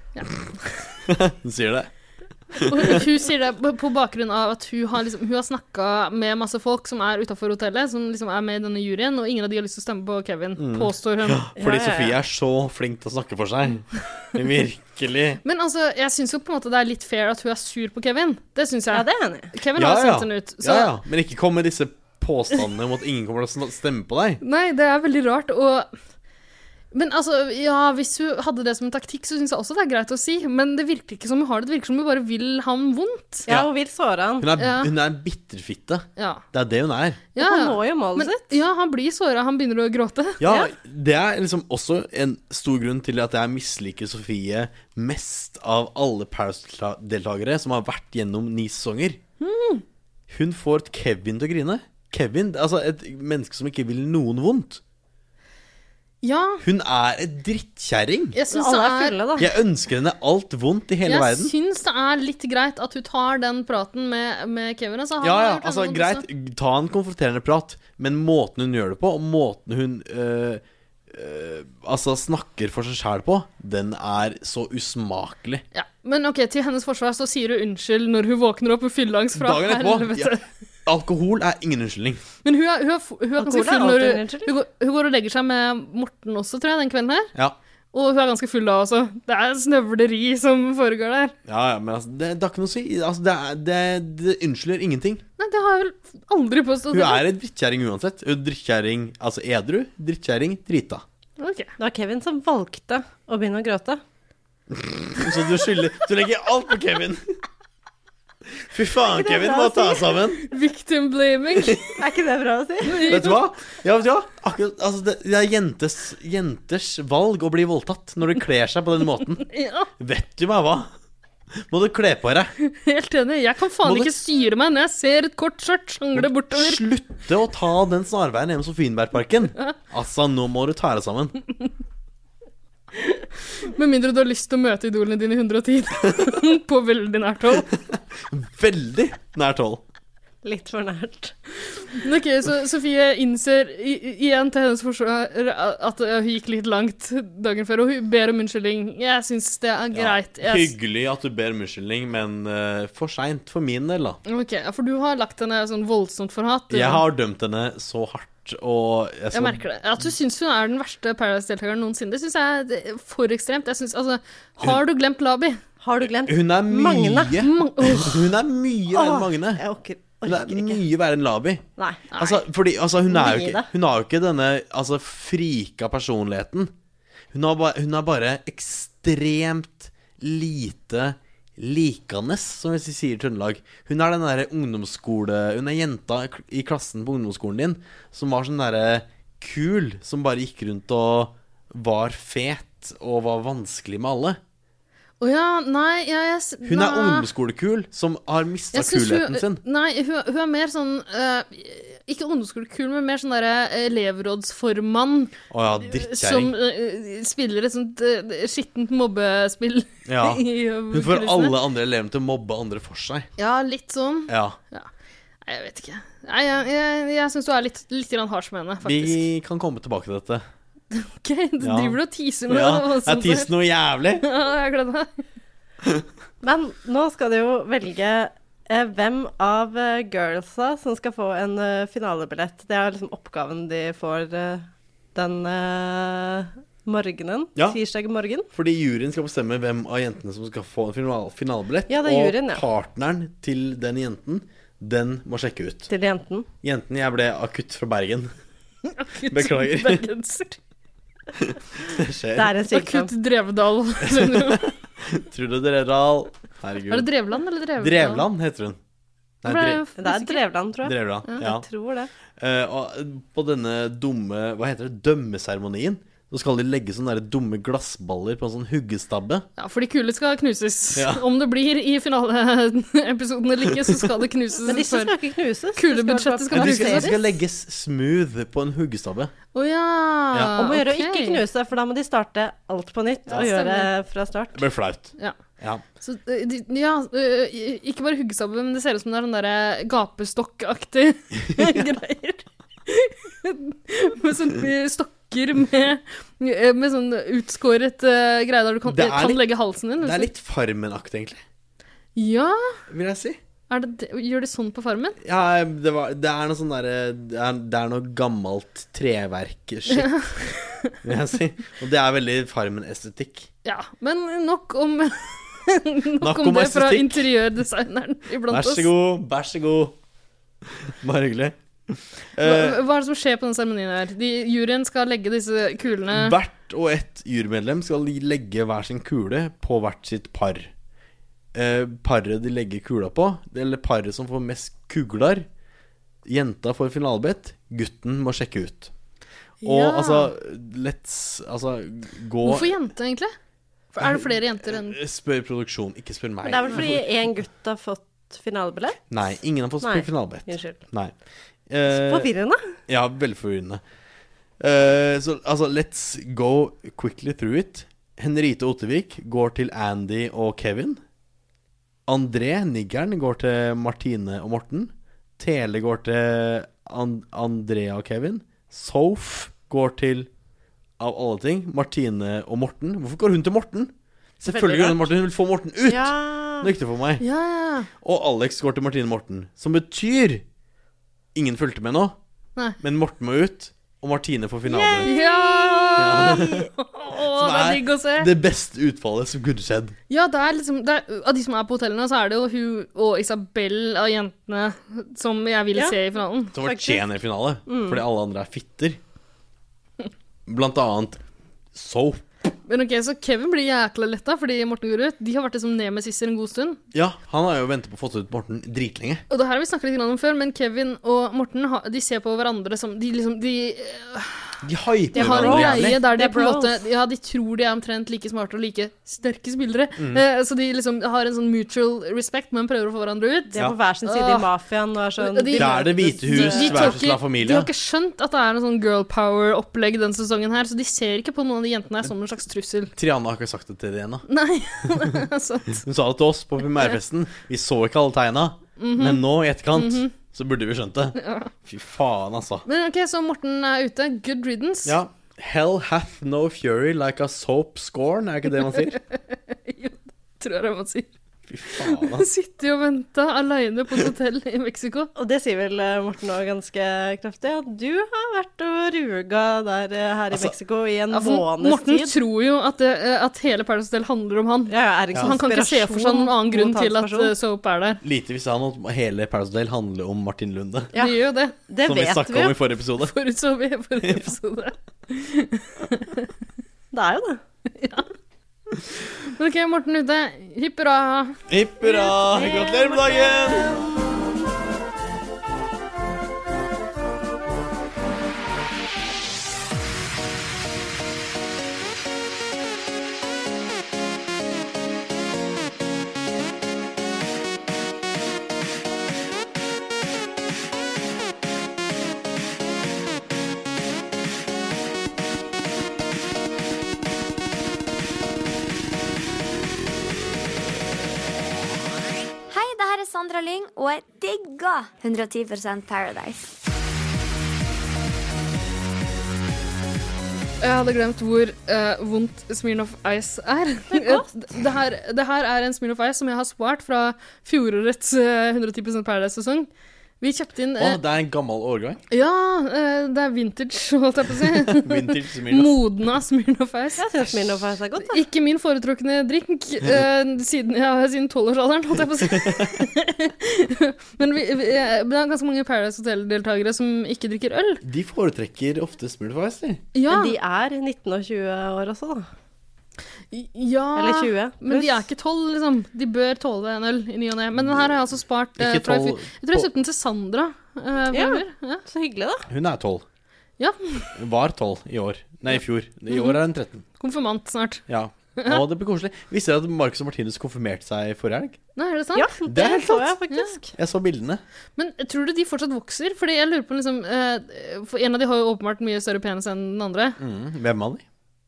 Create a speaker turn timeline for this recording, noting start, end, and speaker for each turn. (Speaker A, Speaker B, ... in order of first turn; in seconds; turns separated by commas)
Speaker A: 0.1-0.9, Speaker B: 1.1-1.9, Speaker B: 2.5-3.0, Speaker A: 2.6-11.5, Speaker B: 10.6-15.4, Speaker C: 11.6-12.2, Speaker A: 15.4-21.0, Speaker C: 18.9-19.5, Speaker B: 19.8-24.4, Speaker A: 24.4-25.9, Speaker A: 26.9-33.5, Speaker C: 33.5-34.5, Speaker B: 34.4-37.2, Speaker A: 34.6-34.9, Speaker A: 36.2-36.4, Speaker A: 37.4-40.4, Speaker C: 37.4-38.5, Speaker B: 40.4-49.2, Speaker C: 40.5-40.7, Speaker A: 49.4-49.8, Speaker B: 50.3-54.8, Speaker A: 56.2-56.6, Speaker B: 56.6-58.4, Speaker A: 58.3-59.2, Speaker C: 58.5-59.5, Speaker B: 59.4-61.5, Speaker A: 61.0-66.2, Speaker B: 65.2-75.6, Speaker A: 75.7-80.4, Speaker B: 79.3-82.2, Speaker A: 82.5-87.3, Speaker C: 83.4-84.5, Speaker A: 87.9-91.3, Speaker B: 91.5-95.2, Speaker A: 95.4-97.2, Speaker B: 96.9-101.0, Speaker A: 101.4-101.7, Speaker C: 101.8-104.0, Speaker B: 104.7-107.2, Speaker B: 108.6-110.5, Speaker C: 109.2-110.0, Speaker A: 110.4-111.9, Speaker C: 112.0-113.2, Speaker A: 112.9-113.4, Speaker B: 113.0-119.5, Speaker A: 119.5-119.9, Speaker B: 120.0-120.9, Speaker B: 121.6-122.5, Speaker A: 122.6-126.9, Speaker B: 123.8-124.3, Speaker B: 126.2-131.3, Speaker A: 133.6-137.7, Speaker B: 138.3-139.8, Speaker C: 140.4-141.3, Speaker A: 141.9-150.7, Speaker B: 149.9-154.2, Speaker A: 154.3-157.1, Speaker B: 156.7-159.6, Speaker A: 159.3-165.6, Speaker C: 165.8-167.4, Speaker B: 166.3-169.6, Speaker A: 167.4-168.1, Speaker C: 168.9-170.8, Speaker B: 170.3-171.6, Speaker C: 171.8-172.3, Speaker B: 172.2-176.7, Speaker C: 173.1-173.7, Speaker B: 177.3-194.4, Speaker A: 195.2-197.3, Speaker B: 196.6-199.6, Speaker A: 198.7-211.6, Speaker B: 205.5-206.5, Speaker B: 210.1-213.3, Speaker A: 213.4-214.9, Speaker B: 214.3-214.6, Speaker A: 215.4-219.3, Speaker B: 218.8-220.4, Speaker A: 220.9-223.5, Speaker B: 221.6-224.3, Speaker A: 224.2-225.2, Speaker C: 226.4-238.5, Speaker B: 238.5-245.9, Speaker C: 241.9-242.6, Speaker C: 245.9-246.5, Speaker B: 246.6-248.3, Speaker A: 248.8-250.6, Speaker B: 249.3-250.1, Speaker B: 251.4-252.5, Speaker C: 252.3-253.1, Speaker A: 252.7-254.7, Speaker B: 254.1-257.1, Speaker A: 256.9-258.3, Speaker B: 257.8-258.8, Speaker B: 259.4-259.8, Speaker A: 259.4-260.4, Speaker C: 260.0-262.1, Speaker B: 260.8-261.6, Speaker B: 262.4-269.5, Speaker A: 269.6-275.1, Speaker B: 271.0-271.2, Speaker C: 274.7-277.1, Speaker A: 275.8-277.2, Speaker B: 276.5-279.3, Speaker A: 279.5-281.4, Speaker C: 280.6-284.6, Speaker A: 283.3-283.9, Speaker B: 284.6-285.8, Speaker A: 286.0-300.3, Speaker B: 291.5-291.9, Speaker B: 298.9-299.5, Speaker B: 300.0-301.4, Speaker A: 302.1-302.8, Speaker B: 302.9-303.4, Speaker A: 303.7-305.2, Speaker B: 305.2-310.2, Speaker A: 309.9-311.0, Speaker B: 311.0-313.5, Speaker A: 313.6-318.9, Speaker B: 316.2-317.3, Speaker B: 318.5-320.0, Speaker B: 320.6-322.8, Speaker A: 322.4-326.4, Speaker B: 326.1-330.7, Speaker B: 331.5-335.5, Speaker B: 336.2-338.9, Speaker A: 339.6-340.3, Speaker B: 339.6-342.9, Speaker A: 342.4-343.3, Speaker A: 343.9-345.0, Speaker B: 344.0-347.3, Speaker C: 346.4-349.0, Speaker B: 349.1-351.1, Speaker C: 349.8-350.8, Speaker B: 351.7-352.3, Speaker C: 351.9-352.6, Speaker B: 352.9-353.8, Speaker B: 354.6-361.0, Speaker B: 362.1-370.3, Speaker B: 371.0-377.2, Speaker C: 374.4-375.1, Speaker C: 375.9-376.7, Speaker A: 377.2-377.9, Speaker B: 378.0-380.4, Speaker B: 381.3-382.2, Speaker B: 382.8-385.1, Speaker C: 384.6-386.4, Speaker A: 385.0-388.3, Speaker B: 386.0-386.6, Speaker B: 387.3-390.0, Speaker A: 390.1-396.6, Speaker B: 396.6-399.0, Speaker C: 396.6-397.1, Speaker C: 397.7-398.0, Speaker B: 400.5-401.2, Speaker B: 401.7-402.2, Speaker A: 402.7-406.8, Speaker B: 406.9-409.2, Speaker A: 409.3-414.6, Speaker B: 414.6-416.0, Speaker C: 415.1-416.8, Speaker A: 415.1-424.5, Speaker B: 420.0-420.2, Speaker C: 423.5-427.0, Speaker A: 425.2-432.9, Speaker B: 425.6-427.7, Speaker B: 433.0-434.2, Speaker A: 434.3-435.8, Speaker B: 435.8-442.6, Speaker A: 438.8-440.1, Speaker A: 441.2-441.5, Speaker A: 442.6-445.0, Speaker B: 444.9-449.0, Speaker A: 449.5-451.1, Speaker B: 451.5-452.3, Speaker A: 451.7-455.1, Speaker C: 455.2-462.1, Speaker A: 461.1-468.0, Speaker C: 464.7-467.3, Speaker B: 468.0-470.9, Speaker C: 470.9-472.6, Speaker A: 470.9-471.6, Speaker B: 471.8-473.1, Speaker A: 473.0-476.3, Speaker C: 476.9-477.4, Speaker A: 477.8-478.1, Speaker A: 479.2-481.4, Speaker B: 481.5-483.8, Speaker C: 482.0-484.5, Speaker D: 512.5-516.5, Speaker A: 520.6-529.7, Speaker C: 523.9-524.3, Speaker A: 530.2-531.0, Speaker B: 530.8-532.0, Speaker A: 532.1-537.0, Speaker B: 534.5-535.8, Speaker C: 537.0-538.3, Speaker A: 538.0-547.8, Speaker B: 542.3-542.7, Speaker B: 547.8-549.8, Speaker A: 549.9-550.4, Speaker C: 550.1-552.3, Speaker A: 553.3-561.8, Speaker C: 554.0-555.0, Speaker B: 557.6-558.0, Speaker B: 558.6-559.7, Speaker C: 561.1-562.5, Speaker B: 562.5-563.0, Speaker A: 563.6-564.1, Speaker B: 564.1-566.9, Speaker A: 566.1-566.4, Speaker A: 567.0-567.8, Speaker B: 567.9-571.6, Speaker A: 571.8-572.3, Speaker C: 572.1-573.7, Speaker B: 572.5-573.0, Speaker A: 573.3-573.5, Speaker B: 573.8-574.4, Speaker A: 574.8-580.2, Speaker B: 580.2-581.0